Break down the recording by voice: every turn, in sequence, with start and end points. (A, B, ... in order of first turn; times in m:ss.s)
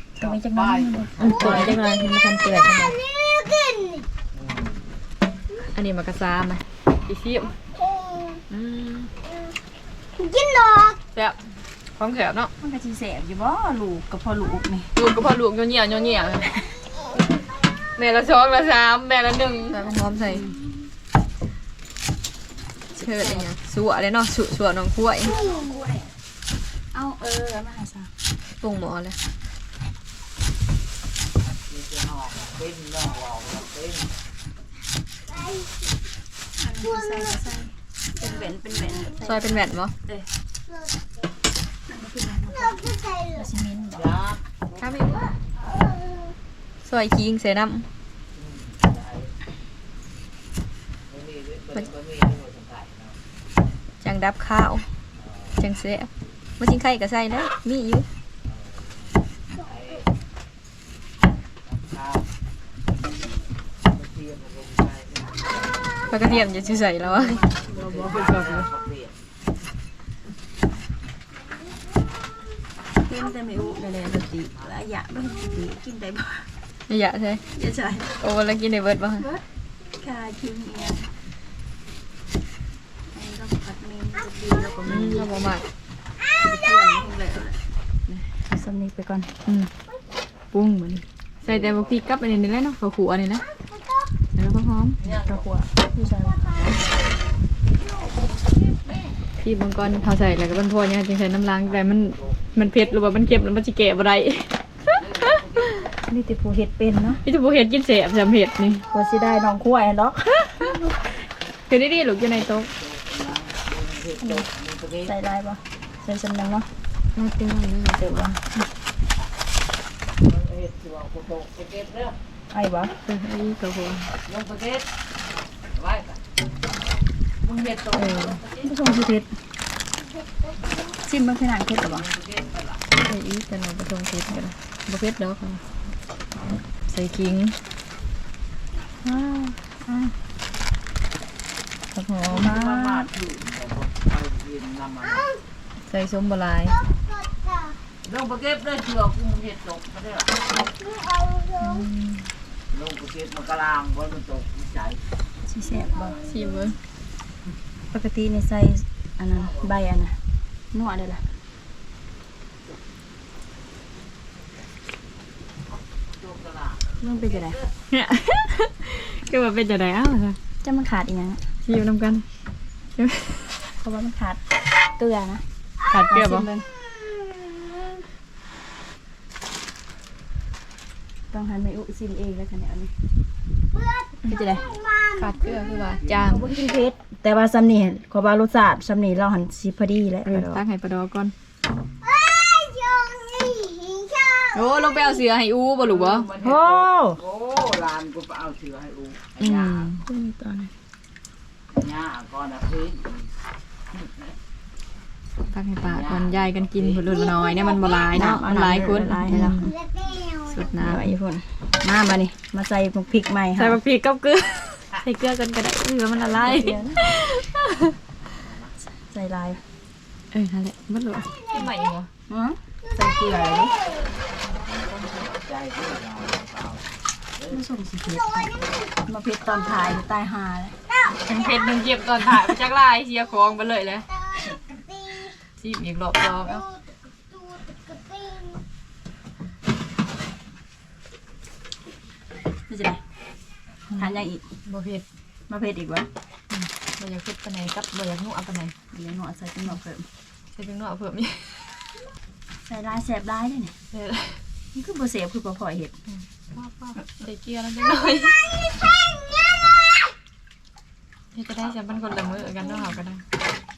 0:00.2-0:01.7 A
0:00.2-0:01.8 B
0:01.2-0:03.0 C
0:02.6-0:04.1 D
0:04.3-0:04.8 B
0:05.8-0:07.5 C
0:07.8-0:08.4 D
0:08.5-0:09.1 C
0:10.2-0:11.0 D
0:12.0-0:12.5 C
0:12.6-0:14.9 A
0:15.0-0:16.6 C
0:18.0-0:20.4 C
0:20.2-0:20.6 A
0:23.0-0:25.3 C
0:25.2-0:25.6 D
0:25.3-0:26.1 A
0:26.9-0:28.1 A
0:28.6-0:29.2 C
0:31.5-0:34.1 B
0:36.6-0:39.5 A
0:36.9-0:37.3 D
0:39.2-0:39.9 C
0:41.9-0:42.8 A
0:42.6-0:43.5 D
0:43.4-0:44.0 A
0:43.9-0:44.4 B
0:44.8-0:45.3 C
0:45.7-0:46.3 D
0:46.8-0:47.9 C
0:48.4-0:49.3 B
0:51.1-0:53.2 B
0:54.0-0:54.9 C
0:55.2-0:55.6 B
0:55.6-0:58.1 C
0:58.5-1:00.0 B
1:01.7-1:02.3 B
1:03.8-1:06.4 B
1:06.1-1:08.6 C
1:07.0-1:08.6 A
1:07.6-1:09.2 B
1:13.0-1:16.5 A
1:16.9-1:17.4 C
1:17.5-1:18.1 A
1:18.2-1:19.3 C
1:20.0-1:21.1 A
1:23.1-1:25.3 A
1:24.8-1:25.6 C
1:26.4-1:29.3 A
1:29.4-1:29.7 C
1:30.5-1:33.4 C
1:31.4-1:31.9 B
1:33.7-1:34.1 D
1:34.4-1:35.0 C
1:35.0-1:35.5 B
1:35.0-1:36.4 A
1:36.3-1:36.8 D
1:39.4-1:44.5 C
1:41.7-1:42.9 B
1:44.9-1:45.9 B
1:46.1-1:47.2 A
1:47.2-1:48.8 C
1:48.9-1:51.1 A
1:51.7-1:52.7 C
1:52.2-1:55.1 B
1:55.0-1:56.7 A
1:57.2-1:58.4 C
1:58.0-1:58.4 A
2:00.2-2:02.2 B
2:02.5-2:02.9 A
2:03.0-2:04.1 C
2:04.3-2:04.9 B
2:05.7-2:06.2 B
2:07.4-2:08.7 B
2:08.0-2:08.4 C
2:08.6-2:09.3 A
2:11.0-2:12.1 A
2:11.8-2:12.8 B
2:13.0-2:15.6 C
2:16.9-2:17.6 C
2:19.1-2:19.5 C
2:19.8-2:20.1 A
2:22.0-2:22.7 C
2:22.1-2:23.1 A
2:22.3-2:25.3 B
2:25.9-2:26.8 C
2:27.1-2:27.8 D
2:28.0-2:30.4 B
2:30.7-2:31.9 D
2:31.6-2:32.3 C
2:32.7-2:35.0 B
2:35.5-2:36.2 A
2:35.8-2:36.4 D
2:36.2-2:36.8 C
2:37.9-2:40.2 A
2:39.4-2:39.7 B
2:40.7-2:41.2 A
2:46.1-2:47.7 B
2:47.0-2:47.6 A
2:47.9-2:50.4 C
2:50.6-2:51.4 A
2:51.7-2:52.2 C
2:53.0-2:53.6 C
2:53.8-2:54.4 A
2:55.0-2:55.4 A
2:55.9-2:56.5 C
2:56.1-2:56.7 A
3:01.3-3:02.9 A
3:03.7-3:06.2 D
3:04.3-3:04.6 A
3:05.2-3:06.5 C
3:06.2-3:10.6 A
3:10.3-3:11.3 C
3:12.0-3:15.2 D
3:14.5-3:16.3 C
3:15.8-3:19.9 B
3:16.4-3:17.2 A
3:19.4-3:20.7 A
3:21.7-3:23.3 B
3:23.9-3:24.3 B
3:25.5-3:29.7 C
3:25.8-3:27.1 B
3:27.1-3:28.3 D
3:28.1-3:29.7 A
3:29.6-3:30.7 D
3:30.5-3:31.1 C
3:30.8-3:33.8 A
3:33.6-3:37.9 C
3:36.4-3:37.0 A
3:38.4-3:38.7 B
3:38.9-3:39.6 A
3:40.3-3:42.1 C
3:42.3-3:43.7 A
3:43.5-3:44.0 D
3:44.4-3:45.3 C
3:45.2-3:47.6 B
3:47.5-3:50.8 A
3:51.3-3:54.0 C
3:54.1-3:55.3 D
3:55.6-3:56.6 C
3:56.5-3:58.6 D
4:02.7-4:03.0 A
4:03.9-4:05.0 C
4:03.9-4:04.4 A
4:05.5-4:06.1 A
4:06.5-4:08.8 C
4:08.9-4:10.1 A
4:10.6-4:11.7 C
4:12.7-4:13.8 A
4:13.9-4:14.4 C
4:14.7-4:15.9 A
4:16.1-4:18.4 C
4:21.3-4:23.2 C
4:21.6-4:23.0 B